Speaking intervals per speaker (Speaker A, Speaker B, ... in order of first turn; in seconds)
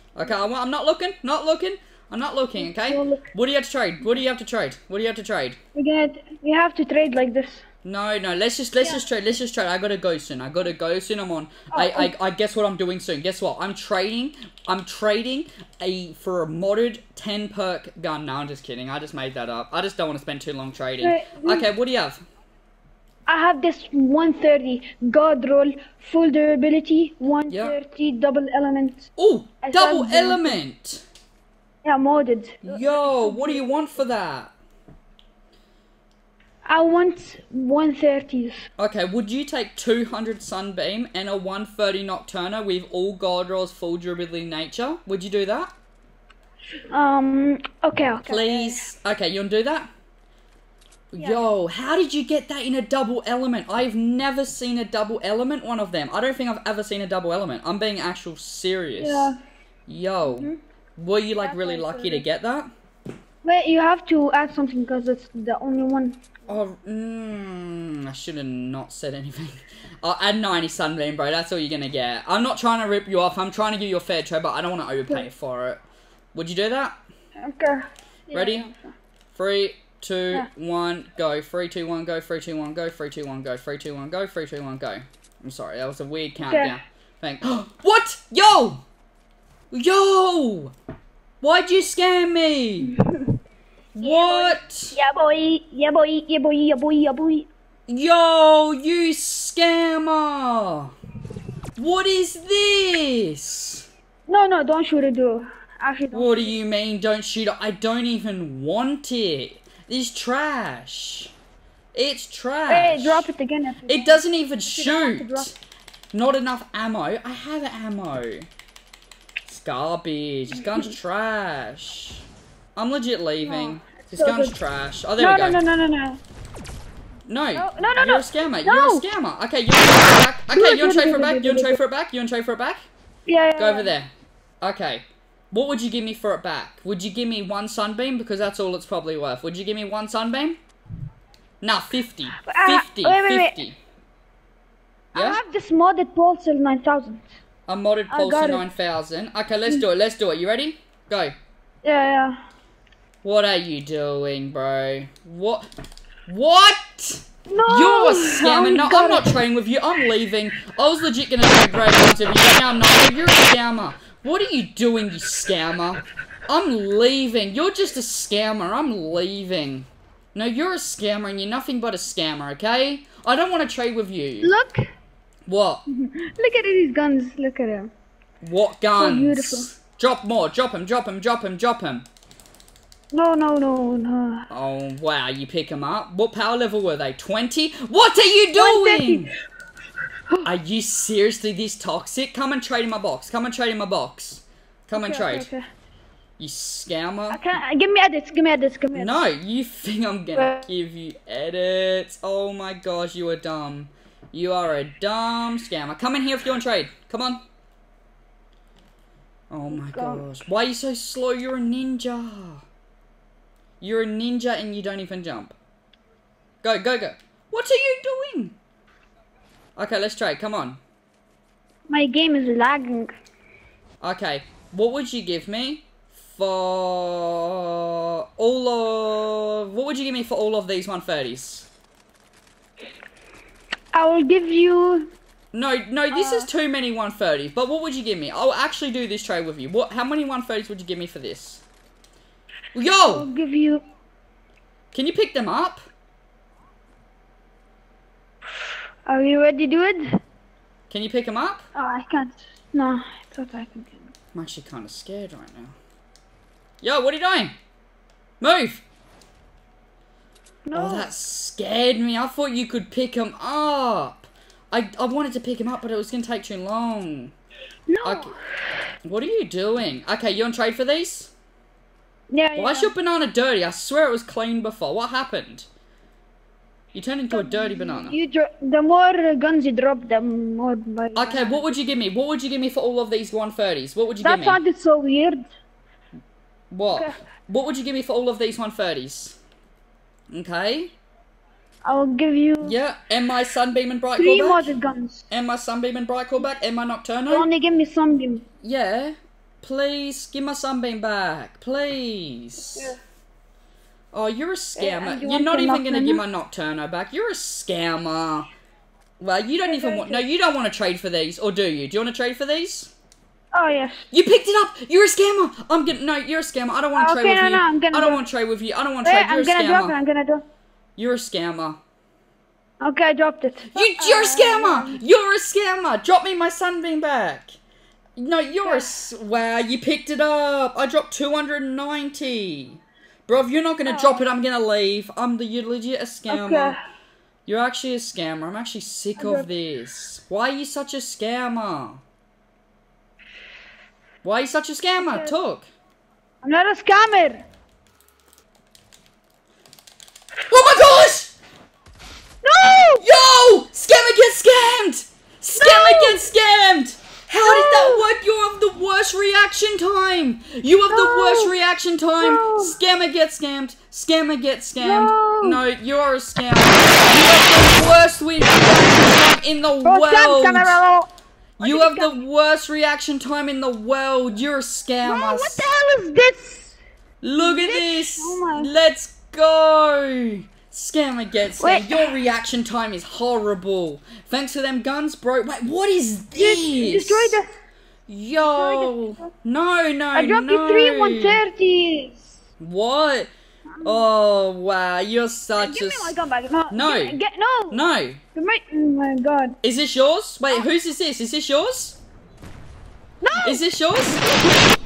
Speaker A: 0.1-5.6, 7.8-22.2, 27.5-27.8, 29.2-31.0, 32.6-34.5, 38.8-45.7, 48.2-49.9, 51.1-59.3, 59.9-62.7, 66.5-75.8, 76.3-77.0, 78.3-78.7, 79.3-88.8, 89.7-90.7, 91.4-92.9, 94.0-94.9, 97.9-100.9, 101.8-103.8, 106.1-111.3, 111.9-113.2, 113.9-115.5, 116.1-118.5, 119.5-122.2, 122.8-125.6, 127.3-132.9, 133.6-134.1, 134.6-140.6, 141.6-143.8, 145.1-145.4, 147.7-151.3, 153.2-155.7, 156.3-174.5, 175.4-175.8, 178.4-182.1, 184.5-189.3, 190.4-195.5, 196.4-197.5, 198.9-207.4, 209.5-212.6, 213.8-215.5, 216.6-218.6, 219.8-220.8, 224.0-231.7, 235.5-241.6, 242.7-243.2, 244.9-245.9, 250.9-251.7, 254.3-255.7, 256.8-257.5, 258.4-258.8, 260.7-267.3, 268.0-268.3, 269.0-271.3, 272.6-275.7, 276.9-278.2, 281.1-284.6, 286.7-289.4, 290.3-290.9, 292.6-294.7, 295.3-297.5, 298.6-302.9, 304.1-308.5, 309.2-312.9, 314.1-320.0, 321.0-321.8, 323.7-327.6, 328.2-336.8, 337.4-342.0, 344.2-345.7, 350.5-351.3, 353.0-370.8, 371.6-375.7, 377.2-387.4, 388.1-391.4, 392.6-393.3, 393.8-396.1, 396.7-397.1, 397.7-398.2, 399.6-402.0, 403.4-404.3
Speaker B: 2.6-3.3, 5.7-7.6, 11.7-12.1, 21.0-21.7, 23.3-29.1, 29.6-30.6, 31.8-33.8, 36.7-38.6, 46.9-48.9, 51.2-51.4, 59.0-59.4, 60.2-60.6, 61.4-62.2, 63.4-66.4, 77.4-79.0, 86.4-86.8, 92.9-93.4, 94.0-97.5, 104.3-106.5, 112.7-115.5, 120.6-120.9, 123.4-124.6, 125.2-126.2, 127.5-129.1, 130.5-131.8, 133.3-133.9, 142.5-143.6, 145.1-147.4, 148.1-148.6, 151.8-152.3, 157.5-159.3, 174.4-174.9, 175.9-177.9, 178.9-179.7, 183.1-184.4, 188.5-189.3, 194.9-195.6, 197.3-199.2, 200.3-200.7, 209.7-210.2, 221.9-223.1, 233.9-235.1, 236.1-236.5, 243.1-243.8, 249.1-250.0, 251.7-254.1, 260.7-261.1, 267.9-268.4, 272.3-272.9, 277.3-281.6, 284.2-285.5, 286.9-287.2, 291.8-292.8, 294.1-295.3, 297.3-298.4, 302.6-302.9, 304.8-306.2, 309.6-310.2, 313.5-314.0, 316.9-318.2, 319.0-320.4, 322.8-325.0, 328.6-328.9, 333.9-334.3, 336.3-336.8, 339.2-339.5, 345.0-345.4, 346.4-347.4, 352.4-353.1, 355.6-356.2, 357.4-358.1, 360.9-361.5, 362.2-362.7, 364.8-365.6, 369.8-371.1, 371.6-372.1, 375.0-376.8, 377.4-378.7, 381.6-382.1, 386.3-387.6, 388.4-389.3, 390.1-392.4, 395.6-397.8, 398.3-399.6, 403.2-403.6, 404.2-404.5